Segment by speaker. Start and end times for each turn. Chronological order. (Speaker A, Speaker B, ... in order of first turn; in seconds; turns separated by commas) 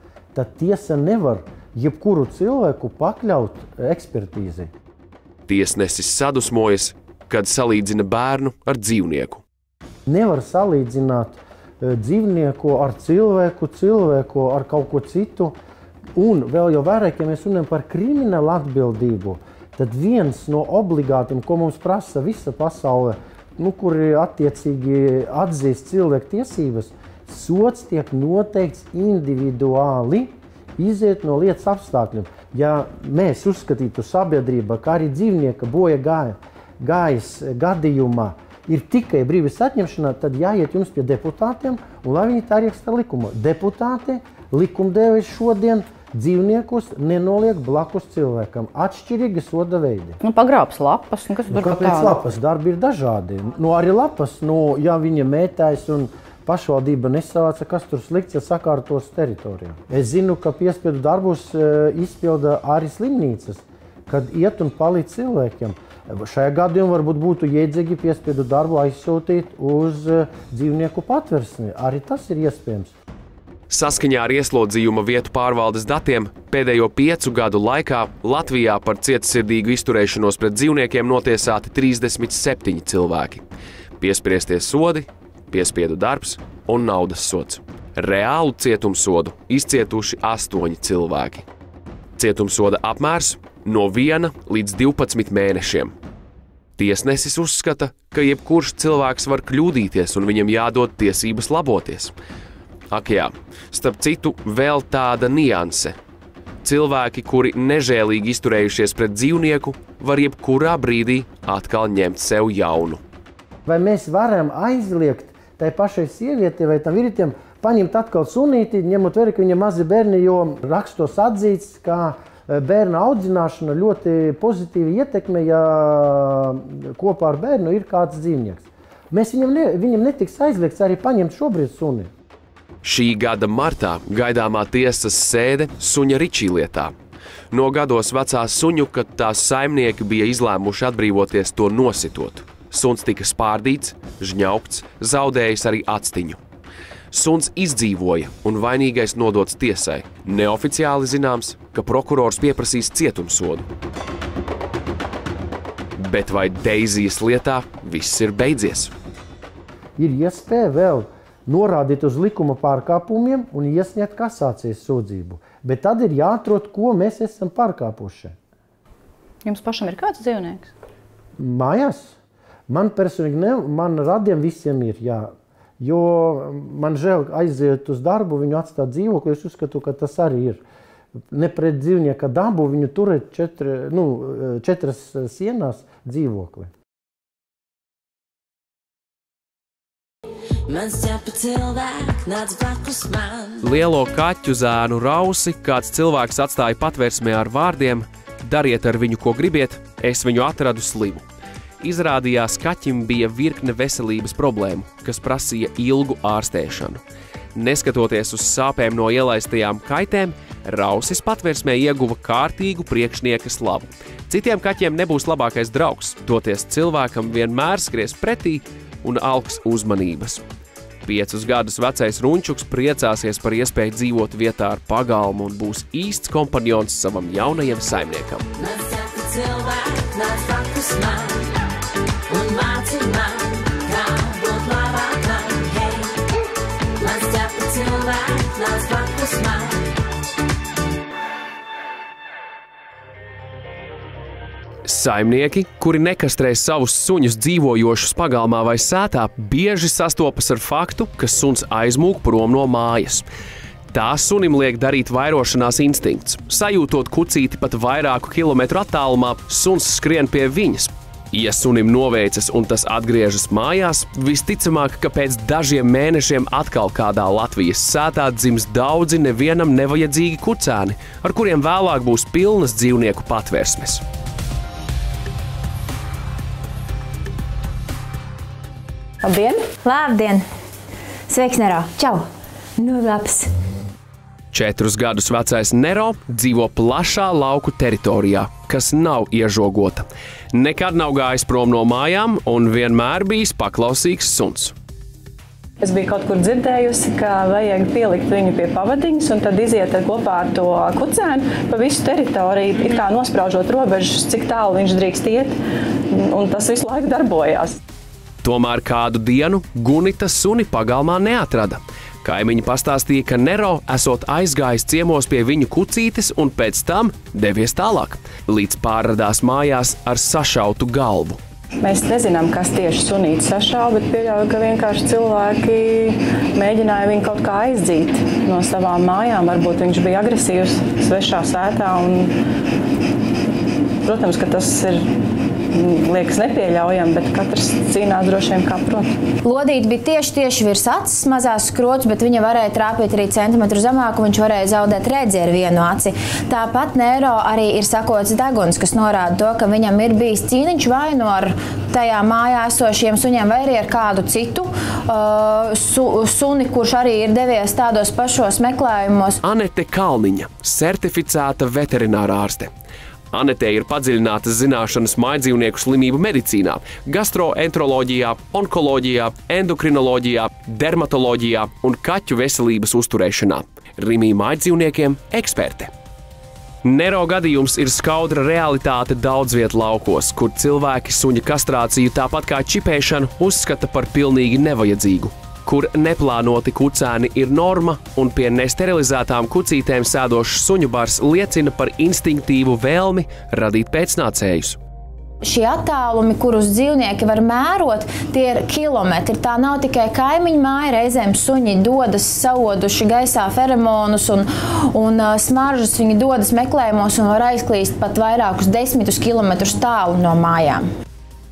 Speaker A: 0.3-4.7, Speaker B: 5.5-9.4, Speaker A: 10.1-15.6, Speaker A: 16.1-50.2, Speaker C: 50.2-52.2, Speaker A: 51.5-72.9, Speaker B: 73.7-83.4, Speaker B: 84.0-91.5, Speaker B: 92.2-95.9, Speaker B: 96.8-102.1, Speaker B: 102.9-106.0, Speaker B: 106.6-113.0, Speaker A: 113.7-132.1, Speaker B: 132.8-136.9, Speaker B: 137.5-146.4, Speaker B: 147.1-153.7, Speaker B: 156.0-158.9, Speaker A: 160.0-168.4, Speaker C: 169.4-170.7, Speaker A: 171.4-172.1, Speaker A: 172.7-180.6, Speaker A: 181.3-186.7, Speaker D: 190.7-193.5, Speaker B: 193.6-201.2, Speaker B: 201.8-207.0, Speaker B: 207.6-220.4, Speaker B: 221.1-228.4, Speaker D: 228.7-231.4, Speaker D: 232.3-236.1, Speaker D: 237.0-239.8, Speaker B: 244.8-253.3, Speaker B: 253.9-274.0, Speaker E: 279.2-279.7, Speaker F: 279.8-280.4, Speaker F: 281.3-282.3, Speaker F: 282.8-283.5, Speaker B: 284.5-294.7, Speaker E: 295.8-305.6, Speaker E: 306.1-307.8, Speaker B: 308.4-321.4, Speaker E: 321.8-332.4, Speaker E: 334.0-339.2, Speaker F: 339.4-359.4, Speaker B: 359.4-362.7, Speaker B: 363.3-375.9, Speaker B: 376.8-394.8, Speaker F: 395.4-410.9